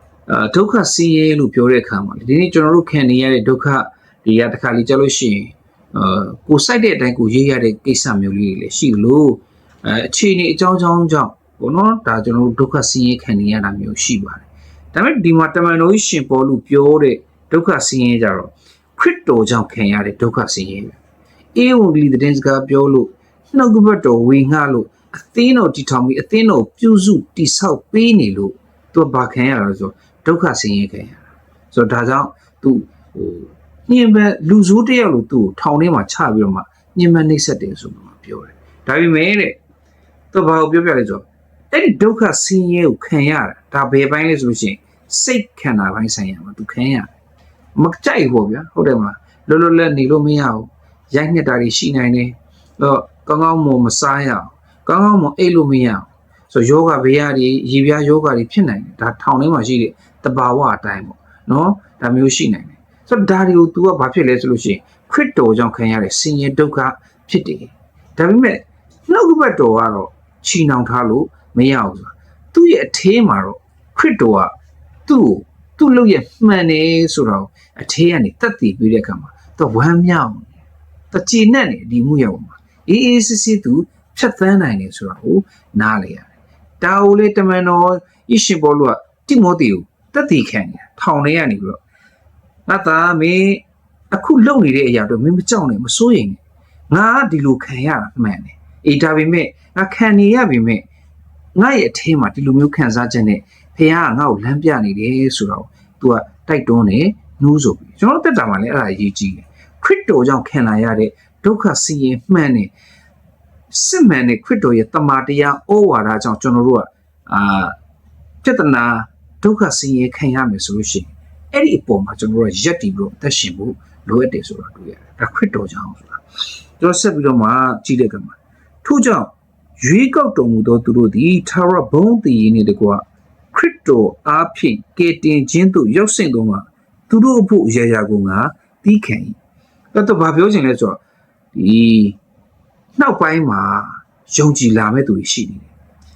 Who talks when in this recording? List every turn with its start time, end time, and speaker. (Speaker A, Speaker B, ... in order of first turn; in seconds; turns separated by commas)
Speaker A: 0.3-21.0, Speaker A: 21.6-39.6, Speaker A: 40.3-47.1, Speaker A: 47.8-74.5, Speaker A: 75.1-80.5, Speaker A: 81.1-91.8, Speaker A: 92.7-96.4, Speaker A: 96.9-100.8, Speaker A: 101.5-112.7, Speaker A: 113.7-117.7, Speaker A: 118.4-126.2, Speaker A: 126.8-139.3, Speaker A: 139.9-141.0, Speaker A: 141.5-142.2, Speaker A: 143.0-145.7